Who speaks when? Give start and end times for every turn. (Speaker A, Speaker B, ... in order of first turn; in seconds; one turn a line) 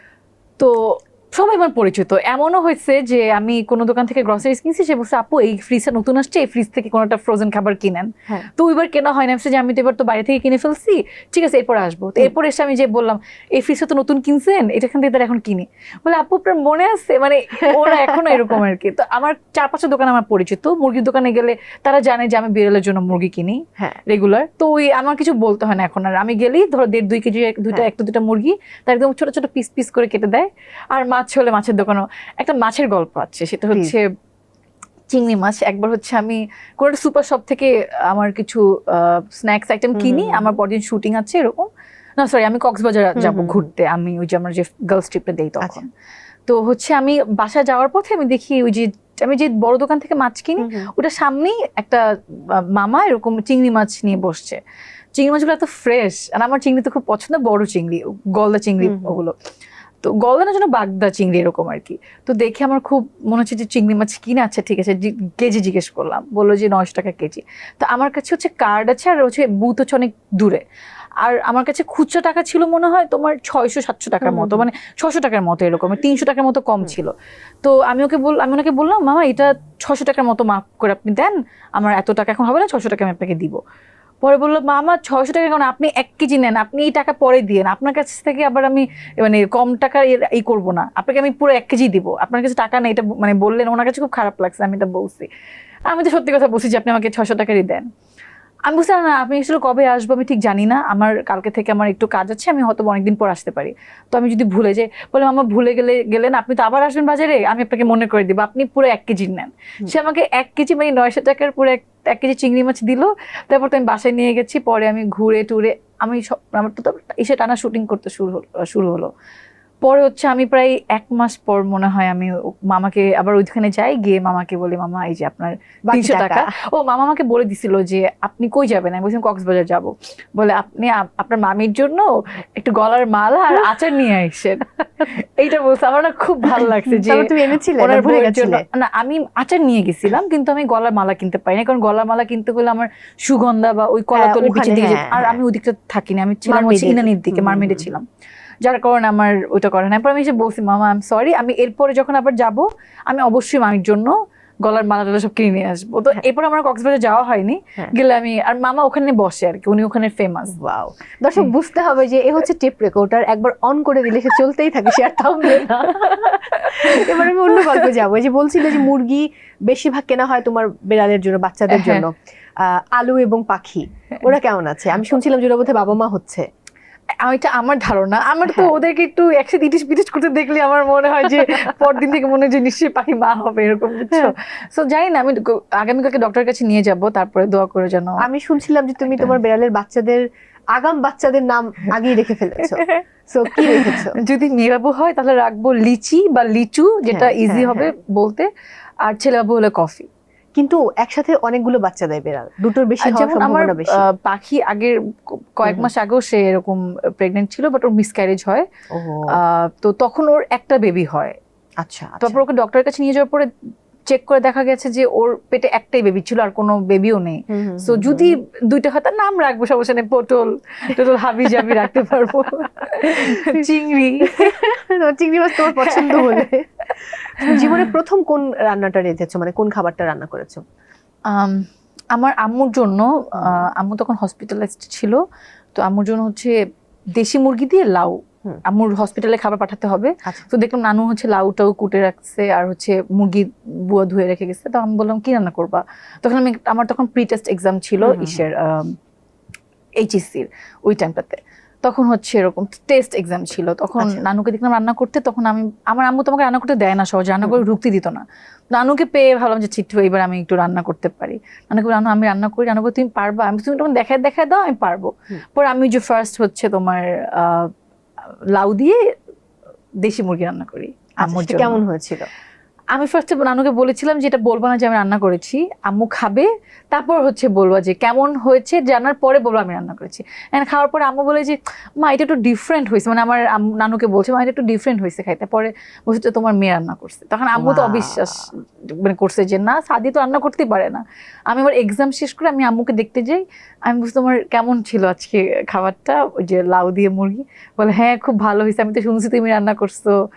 Speaker A: 0.6-34.1
Speaker B: 17.7-18.3
Speaker A: 35.1-45.9
Speaker B: 40.0-40.5
Speaker B: 43.2-43.6
Speaker A: 46.5-52.0
Speaker B: 50.6-50.9
Speaker A: 52.5-54.6
Speaker A: 55.1-59.3
Speaker B: 58.8-59.1
Speaker A: 60.0-70.6
Speaker A: 71.2-83.6
Speaker B: 74.2-74.7
Speaker A: 84.2-95.3
Speaker A: 95.9-97.9
Speaker A: 98.7-119.1
Speaker A: 119.8-148.0
Speaker B: 125.9-126.5
Speaker B: 136.5-138.6
Speaker B: 144.1-145.4
Speaker B: 146.5-147.9
Speaker A: 148.6-160.6
Speaker B: 160.5-176.5
Speaker A: 165.4-167.9
Speaker A: 171.7-172.1
Speaker A: 177.2-188.2
Speaker B: 178.4-178.7
Speaker B: 188.2-194.2
Speaker A: 189.0-189.3
Speaker A: 192.6-198.5
Speaker B: 197.1-197.9
Speaker A: 199.0-200.1
Speaker B: 200.6-204.0
Speaker A: 203.0-205.0
Speaker A: 205.6-208.6
Speaker B: 208.9-209.3
Speaker A: 209.3-211.3
Speaker B: 211.8-212.4
Speaker A: 212.2-213.5
Speaker A: 214.1-224.6
Speaker B: 217.5-218.4
Speaker B: 223.1-223.6
Speaker B: 224.3-230.6
Speaker A: 225.6-226.5
Speaker A: 227.4-227.9
Speaker A: 231.3-235.2
Speaker B: 233.3-233.7
Speaker A: 235.8-236.5
Speaker A: 237.2-248.9
Speaker B: 248.0-248.4
Speaker A: 250.0-267.7
Speaker A: 268.5-269.0
Speaker A: 270.0-271.8
Speaker B: 271.2-272.3
Speaker A: 272.9-300.1
Speaker B: 287.6-288.4